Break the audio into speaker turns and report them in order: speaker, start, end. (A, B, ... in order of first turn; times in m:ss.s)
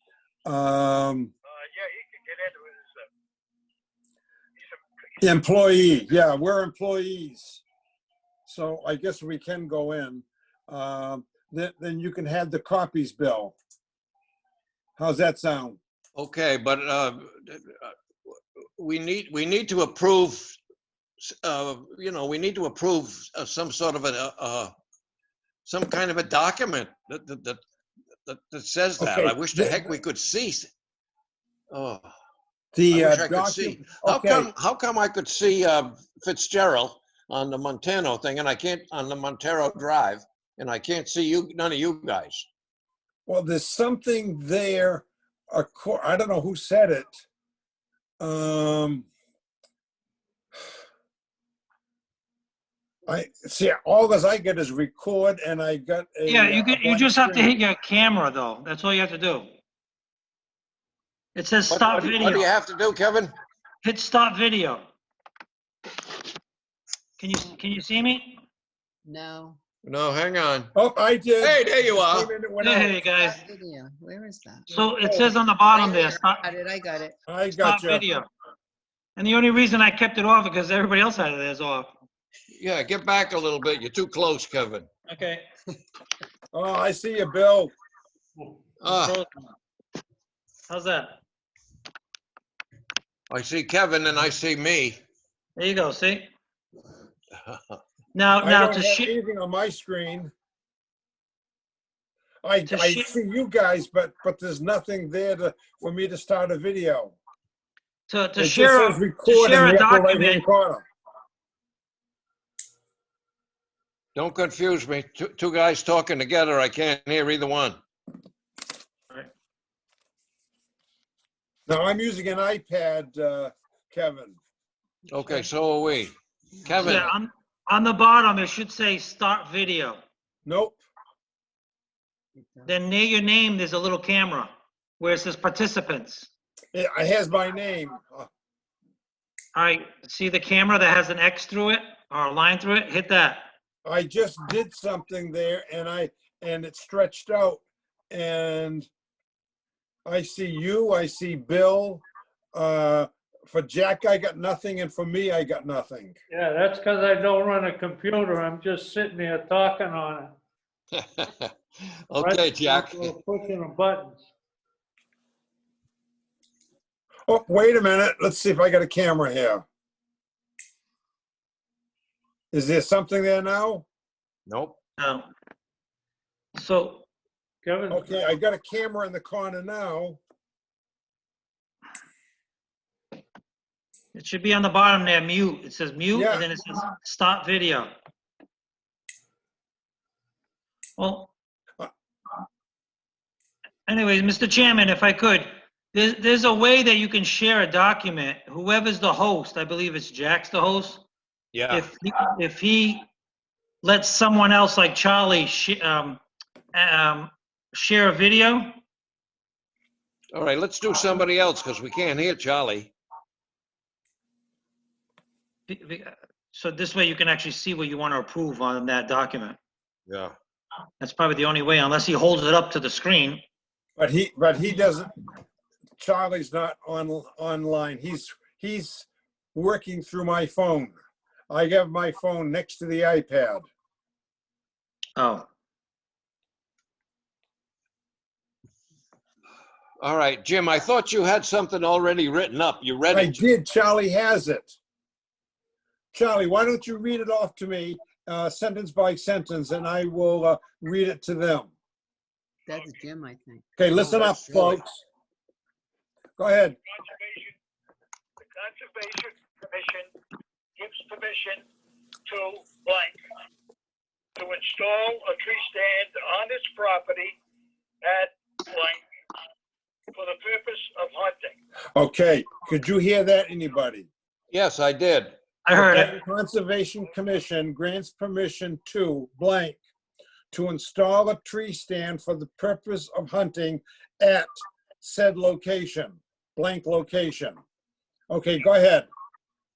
0:00.4-0:01.3 A
0:01.5-0:03.1 B
0:05.2-0:07.6 A
0:08.4-0:13.5 A
0:15.0-0:15.8 A
0:16.2-0:17.9 C
0:18.8-0:20.6 C
0:21.2-0:24.7 C
0:25.6-0:27.6 C
0:28.2-0:30.7 C
0:29.0-0:29.9 A
0:31.7-0:32.1 C
0:32.7-0:34.5 A
0:32.9-0:42.4 C
0:43.3-0:47.2 A
0:48.2-0:49.1 A
0:53.1-0:57.5 A
0:56.3-0:59.5 D
1:01.3-1:02.5 D
1:01.7-1:03.3 C
1:03.8-1:04.8 D
1:07.2-1:08.4 D
1:09.0-1:09.6 E
1:09.8-1:10.7 C
1:10.7-1:13.0 A
1:11.4-1:12.3 C
1:12.6-1:13.4 D
1:13.0-1:17.2 E
1:14.7-1:16.4 D
1:17.3-1:18.0 A
1:17.6-1:18.3 D
1:19.2-1:21.9 D
1:22.5-1:24.9 C
1:25.1-1:25.4 D
1:26.5-1:27.7 A
1:28.8-1:29.2 C
1:28.8-1:29.5 D
1:30.7-1:31.2 D
1:33.3-1:35.0 C
1:35.6-1:36.3 D
1:37.4-1:37.8 C
1:38.1-1:39.1 D
1:38.4-1:40.3 A
1:42.4-1:47.2 A
1:42.7-1:43.1 D
1:48.1-1:50.4 D
1:48.4-1:50.8 A
1:54.1-1:57.8 C
2:01.7-2:04.4 A
2:05.1-2:07.1 C
2:06.8-2:10.0 D
2:10.4-2:10.8 A
2:12.4-2:12.8 E
2:12.6-2:16.3 D
2:16.7-2:18.3 A
2:19.5-2:23.5 D
2:23.8-2:28.9 A
2:30.0-2:36.2 A
2:36.3-2:40.3 F
2:40.9-2:41.5 C
2:42.1-2:43.1 C
2:42.2-2:44.3 F
2:47.3-2:49.6 A
2:52.5-2:53.8 A
2:54.5-2:54.8 C
2:55.0-2:55.3 D
2:56.6-2:57.0 D
2:57.6-2:58.3 F
2:57.9-3:00.2 A
3:04.1-3:07.9 D
3:06.1-3:06.5 A
3:11.0-3:11.3 D
3:13.9-3:21.0 D
3:21.5-3:21.9 C
3:21.7-3:23.1 D
3:23.8-3:26.2 D
3:26.7-3:28.8 D
3:30.3-3:32.9 C
3:35.7-3:39.6 D
3:40.1-3:40.3 C
3:41.0-3:43.4 D
3:44.0-3:45.1 A
3:46.0-3:51.0 A
3:51.5-3:53.6 A
3:55.2-3:55.5 D
4:00.0-4:03.4 C
4:03.1-4:04.8 A
4:06.1-4:11.7 A
4:12.7-4:14.8 E
4:13.8-4:15.0 A
4:16.4-4:16.8 A
4:16.9-4:17.5 B
4:18.4-4:20.1 B
4:20.8-4:21.6 B
4:22.2-4:23.2 B
4:24.4-4:27.4 B
4:28.0-4:29.0 B
4:30.1-4:31.6 B
4:32.0-4:34.1 A
4:34.5-4:35.3 C
4:35.6-4:36.2 D
4:35.7-4:39.8 A
4:40.5-4:47.6 A
4:48.3-4:49.1 A